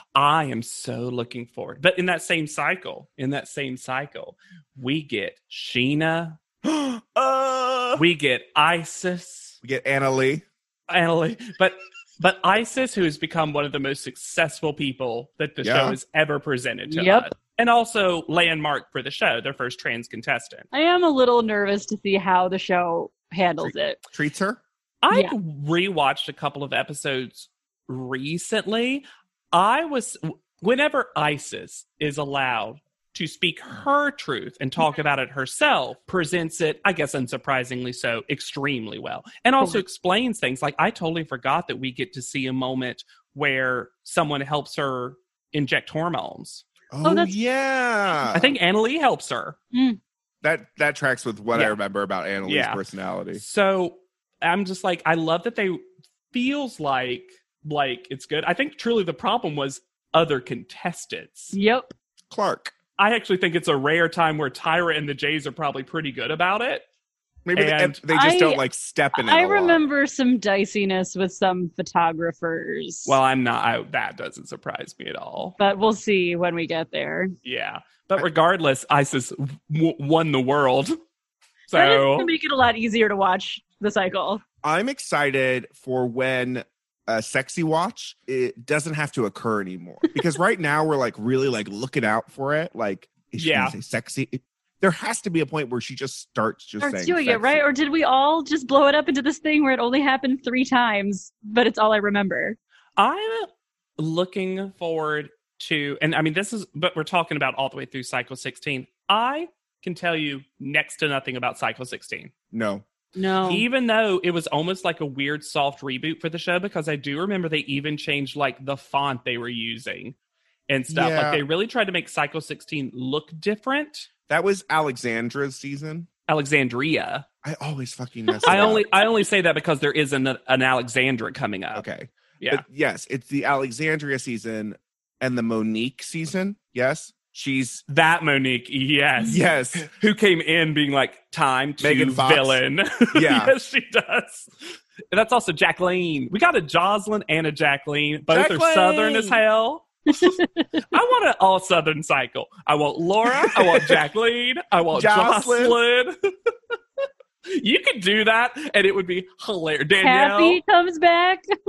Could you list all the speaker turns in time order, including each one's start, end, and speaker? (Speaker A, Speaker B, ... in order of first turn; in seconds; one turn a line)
Speaker A: 0.2-6.4
Speaker B: 6.6-8.1
Speaker A: 8.0-9.6
Speaker B: 9.6-10.4
Speaker A: 10.9-20.7
Speaker B: 15.6-16.0
Speaker C: 16.9-17.3
Speaker C: 20.7-24.0
Speaker B: 23.6-24.6
Speaker A: 25.0-46.6
Speaker C: 25.1-25.4
Speaker B: 46.9-48.5
Speaker C: 47.0-47.4
Speaker A: 48.3-49.6
Speaker C: 49.7-50.0
Speaker B: 50.4-53.4
Speaker A: 52.4-52.8
Speaker A: 53.4-55.8
Speaker A: 56.3-61.6
Speaker C: 61.5-61.9
Speaker B: 62.3-62.7
Speaker A: 63.0-66.8
Speaker B: 67.5-69.8
Speaker A: 67.5-68.1
Speaker C: 68.1-73.2
Speaker A: 73.1-75.6
Speaker C: 75.6-77.3
Speaker A: 77.4-80.9
Speaker A: 81.7-82.3
Speaker C: 81.7-84.4
Speaker B: 84.6-97.6
Speaker A: 93.4-93.8
Speaker C: 96.8-102.6
Speaker A: 103.0-112.3
Speaker B: 112.5-112.8
Speaker C: 113.2-113.7
Speaker B: 113.4-113.6
Speaker A: 113.5-120.2
Speaker A: 120.7-124.1
Speaker B: 120.9-121.5
Speaker B: 124.3-126.1
Speaker A: 126.3-127.2
Speaker B: 127.4-128.9
Speaker A: 128.4-131.9
Speaker B: 131.7-137.8
Speaker A: 137.9-144.5
Speaker B: 139.3-139.9
Speaker B: 141.8-142.6
Speaker B: 143.1-143.5
Speaker A: 145.1-150.4
Speaker B: 148.3-149.4
Speaker C: 150.1-150.7
Speaker A: 150.9-156.5
Speaker B: 153.5-154.0
Speaker B: 154.9-155.8
Speaker A: 157.5-160.6
Speaker C: 160.0-161.4